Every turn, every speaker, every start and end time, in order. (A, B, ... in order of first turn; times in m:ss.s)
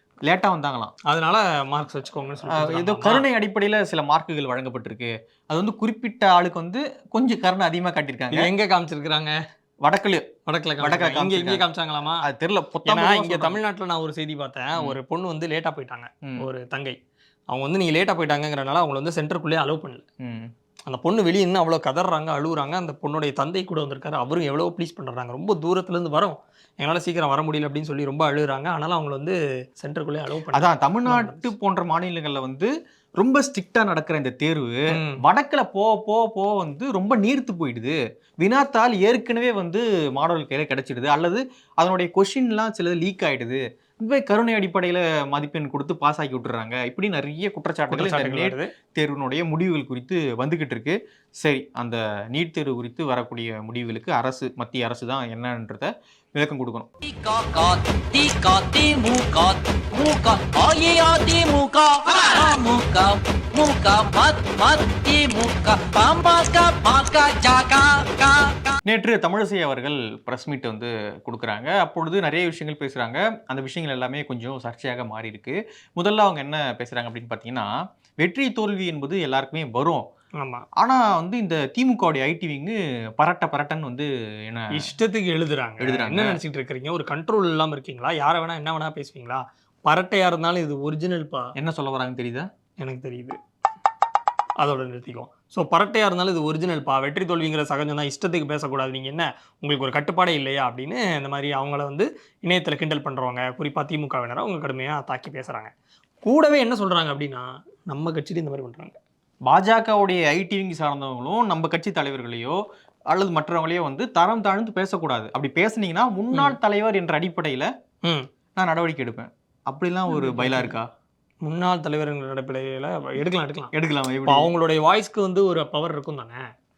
0:00.3-0:00.9 A
0:01.1-0:03.3 B
0:02.5-0:08.5 A
0:08.3-0:09.4 B
0:09.8-0:10.3 A
0:10.5-0:12.2 B
0:10.8-0:11.6 A
0:12.2-0:13.6 A
0:12.9-0:17.0 B
0:17.5-0:20.0 B
0:20.2-0:20.5 A
0:20.9-0:31.5 B
0:30.5-0:56.9 A
0:34.9-0:35.2 B
0:47.9-0:48.7 B
0:57.0-1:08.8 C
1:08.9-1:17.7 A
1:18.2-1:20.0 A
1:20.4-1:20.7 B
1:20.8-1:24.8 A
1:24.8-1:31.5 B
1:25.8-1:26.4 A
1:31.6-1:32.5 A
1:32.8-1:33.4 B
1:34.6-1:45.7 B
1:46.2-1:49.0 B
1:49.5-1:52.6 A
1:53.1-1:57.7 A
1:58.6-2:00.9 A
2:00.1-2:00.7 B
2:01.4-2:03.7 B
2:03.7-2:04.5 A
2:04.3-2:06.5 B